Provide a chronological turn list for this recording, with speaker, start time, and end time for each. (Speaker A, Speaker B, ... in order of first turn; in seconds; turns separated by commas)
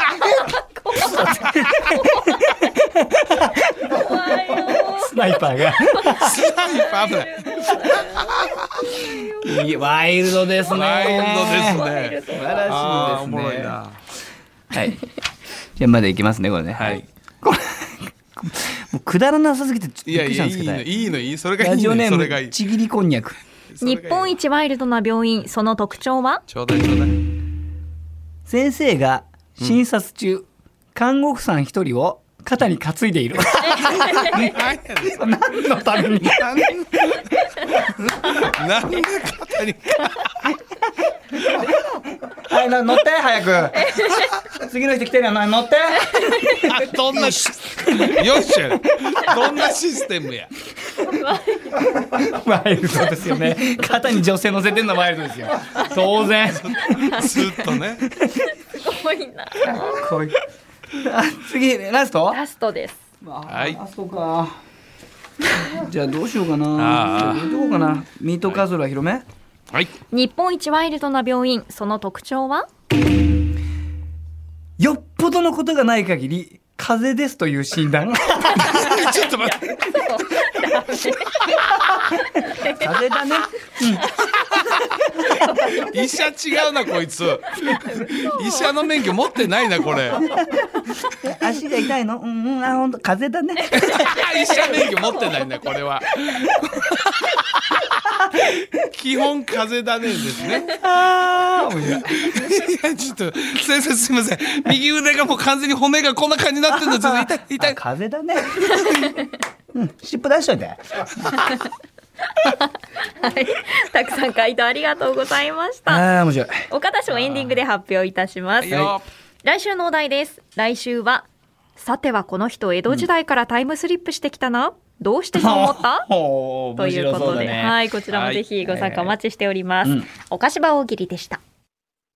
Speaker A: 0.1-2.5, Speaker B: 0.9-3.9, Speaker A: 3.5-9.9, Speaker B: 4.8-6.4, Speaker C: 6.1-8.8, Speaker B: 9.0-13.8, Speaker C: 10.7-14.0, Speaker A: 11.0-13.0, Speaker B: 14.7-15.0, Speaker B: 15.8-20.9, Speaker C: 16.8-17.1, Speaker C: 20.1-22.6, Speaker B: 21.6-23.4, Speaker C: 23.7-24.4, Speaker A: 23.8-26.4, Speaker C: 26.5-27.2, Speaker B: 28.5-37.1, Speaker A: 33.9-34.5, Speaker C: 33.9-35.4, Speaker C: 36.2-37.3, Speaker C: 38.1-40.5, Speaker B: 42.3-43.9, Speaker A: 43.8-44.4, Speaker B: 44.5-48.3, Speaker A: 46.0-46.8, Speaker C: 46.6-50.5, Speaker A: 51.0-52.0, Speaker B: 52.0-57.3, Speaker C: 56.5-58.1, Speaker B: 58.1-58.3, Speaker A: 58.3-60.3, Speaker B: 59.6-60.4, Speaker B: 60.9-62.4, Speaker A: 62.3-63.0, Speaker B: 63.2-64.6, Speaker C: 63.5-63.8, Speaker B: 65.5-69.2, Speaker C: 66.8-67.5, Speaker A: 70.1-72.7, Speaker B: 74.8-79.0, Speaker A: 78.5-82.9, Speaker C: 78.6-79.8, Speaker B: 82.7-84.1, Speaker C: 84.2-90.4, Speaker A: 85.2-86.0, Speaker A: 87.7-88.7, Speaker B: 90.3-94.1, Speaker A: 93.7-95.4, Speaker C: 93.7-100.8, Speaker B: 100.6-102.4, Speaker C: 102.0-107.8, Speaker B: 106.7-109.1, Speaker A: 108.7-109.3, Speaker B: 109.7-111.4, Speaker A: 111.4-111.7, Speaker A: 112.3-116.1, Speaker B: 115.9-116.7, Speaker A: 116.7-118.8, Speaker C: 117.1-117.6, Speaker C: 118.6-119.1, Speaker A: 119.4-121.3, Speaker A: 121.8-126.1, Speaker B: 125.4-127.8, Speaker A: 126.8-131.4, Speaker C: 128.1-128.4, Speaker B: 128.7-129.1